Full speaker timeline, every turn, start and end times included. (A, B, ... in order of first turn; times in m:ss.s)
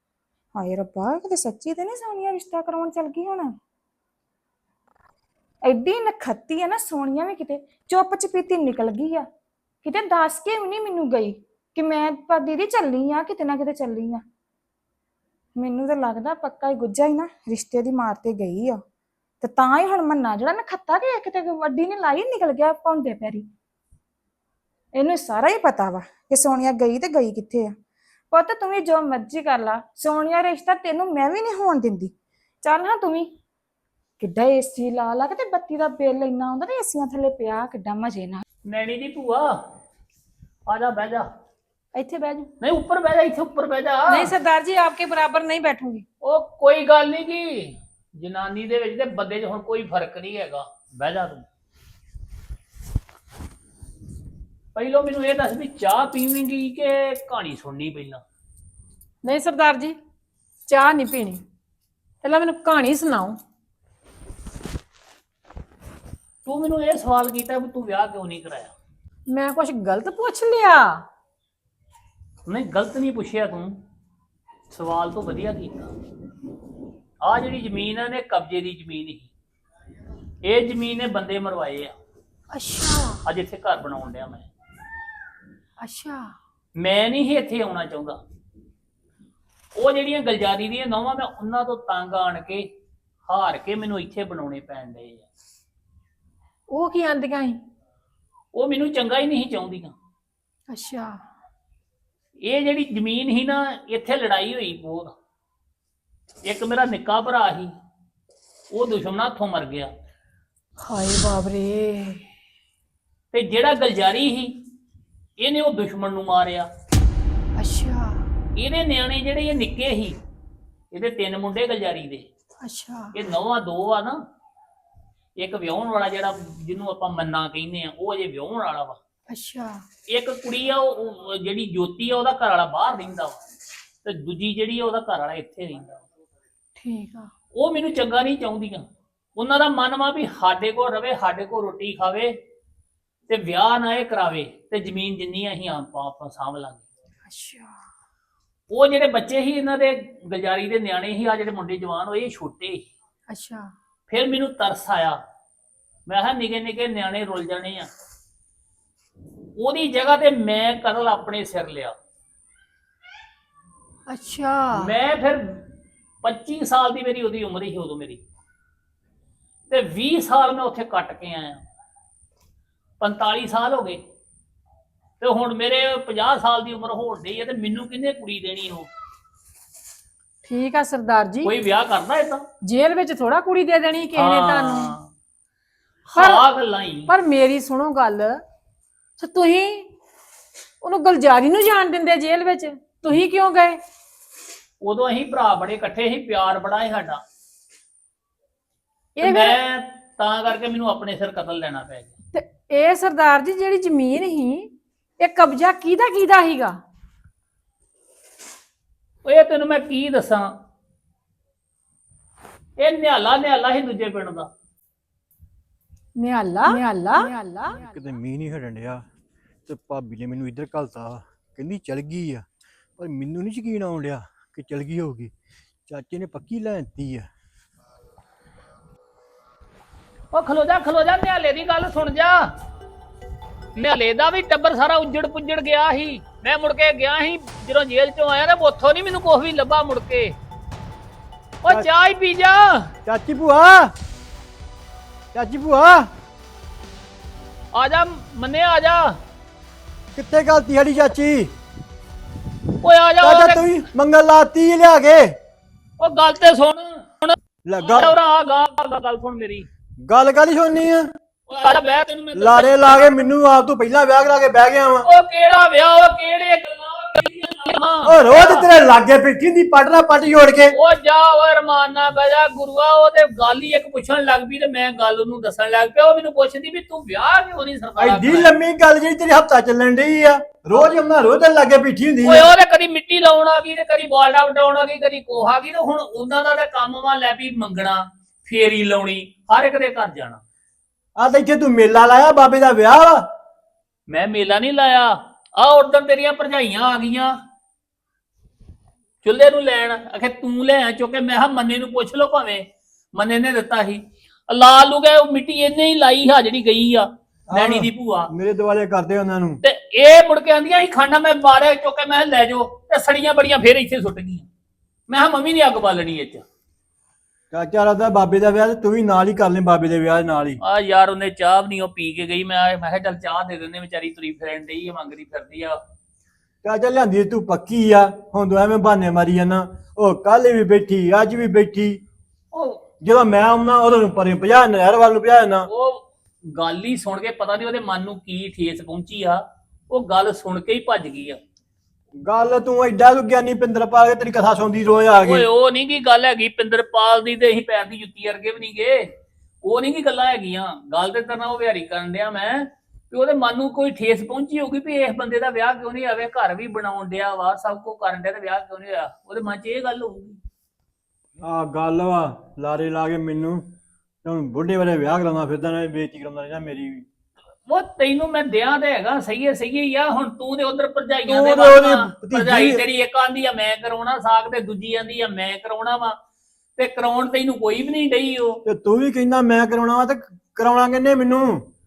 0:00.5-0:03.5 A
0:05.6-0:09.2 A
0:09.8-0:14.2 A
0:15.6-0:18.8 A
0:19.4-0:23.5 A
0:25.0-0:27.7 A
0:28.3-0:33.3 A
0:34.2-0:38.4 A
0:38.6-0:39.6 B
0:40.7-0:41.3 B
0:42.0-0:42.5 C
0:42.6-0:44.3 B
0:44.1-0:46.0 C
0:46.2-0:51.4 B
0:54.8-0:58.2 B
0:59.2-1:00.0 C
1:00.7-1:01.4 C
1:02.2-1:03.4 C
1:06.4-1:08.7 B
1:09.3-1:11.0 C
1:12.5-1:13.8 B
1:14.7-1:15.9 B
1:17.2-1:19.3 B
1:20.4-1:21.9 B
1:22.5-1:23.2 C
1:23.3-1:24.5 B
1:25.8-1:26.3 C
1:26.8-1:28.2 B
1:29.8-1:32.6 B
1:33.3-1:35.3 B
1:36.7-1:37.6 C
1:38.5-1:39.9 B
1:40.7-1:41.2 C
1:42.4-1:45.1 B
1:46.4-1:47.7 B
1:48.7-1:49.9 B
1:50.8-1:52.2 C
1:53.3-1:54.5 B
1:55.4-1:56.7 B
1:57.6-1:58.2 C
1:58.6-2:00.2 B
2:00.9-2:02.3 B
2:02.6-2:03.1 C
2:03.1-2:04.2 B
2:05.4-2:09.0 B
2:09.3-2:09.8 C
2:10.1-2:13.4 B
2:14.0-2:16.0 B
2:16.8-2:17.3 C
2:17.5-2:18.8 B
2:19.4-2:22.3 B
2:23.3-2:26.8 B
2:27.3-2:27.8 C
2:28.7-2:32.9 B
2:33.3-2:33.7 C
2:34.1-2:35.2 B
2:36.1-2:37.9 B
2:39.6-2:42.0 B
2:44.1-2:44.9 C
2:44.7-2:45.6 B
2:46.2-2:48.2 B
2:49.7-2:51.6 B
2:53.0-2:54.0 B
2:55.2-2:58.9 B
3:00.4-3:01.5 C
3:01.4-3:02.4 B
3:02.6-3:05.0 C
3:04.1-3:05.1 B
3:06.1-3:06.4 C
3:06.1-3:07.1 B
3:07.1-3:08.4 C
3:09.2-3:09.9 C
3:10.8-3:13.8 C
3:14.8-3:17.2 B
3:19.2-3:19.6 C
3:19.2-3:22.1 B
3:22.3-3:26.8 C
3:29.2-3:30.5 B
3:32.8-3:34.5 B
3:36.2-3:37.8 C
3:37.7-3:39.0 D
3:39.7-3:42.4 D
3:43.0-3:45.3 D
3:45.9-3:47.3 D
3:50.3-3:52.5 B
3:53.8-4:00.3 B
4:01.6-4:02.9 B
4:03.0-4:03.9 D
4:05.3-4:06.1 D
4:07.7-4:09.2 B
4:10.1-4:11.5 D
4:12.8-4:13.6 B
4:13.2-4:15.4 D
4:16.0-4:19.7 B
4:17.6-4:18.2 D
4:20.0-4:21.1 D
4:21.5-4:22.8 B
4:22.3-4:25.1 D
4:25.0-4:28.7 B
4:28.0-4:30.8 D
4:30.7-4:38.5 B
4:38.0-4:42.5 D
4:42.2-4:50.4 B
4:51.2-4:53.3 D
4:54.1-4:57.3 B
4:59.2-5:08.3 B
5:07.5-5:09.6 D
5:09.6-5:14.5 B
5:15.1-5:16.4 B
5:17.5-5:20.6 D
5:20.6-5:25.8 B
5:26.6-5:32.0 D
5:32.5-5:32.8 B
5:33.0-5:35.7 D
5:35.7-5:41.4 B
5:42.2-5:45.5 D
5:45.2-5:49.0 B
5:49.6-6:00.4 B
6:01.4-6:03.7 D
6:04.2-6:07.0 D
6:07.7-6:16.2 B
6:11.3-6:12.8 D
6:16.8-6:18.6 B
6:18.6-6:21.6 D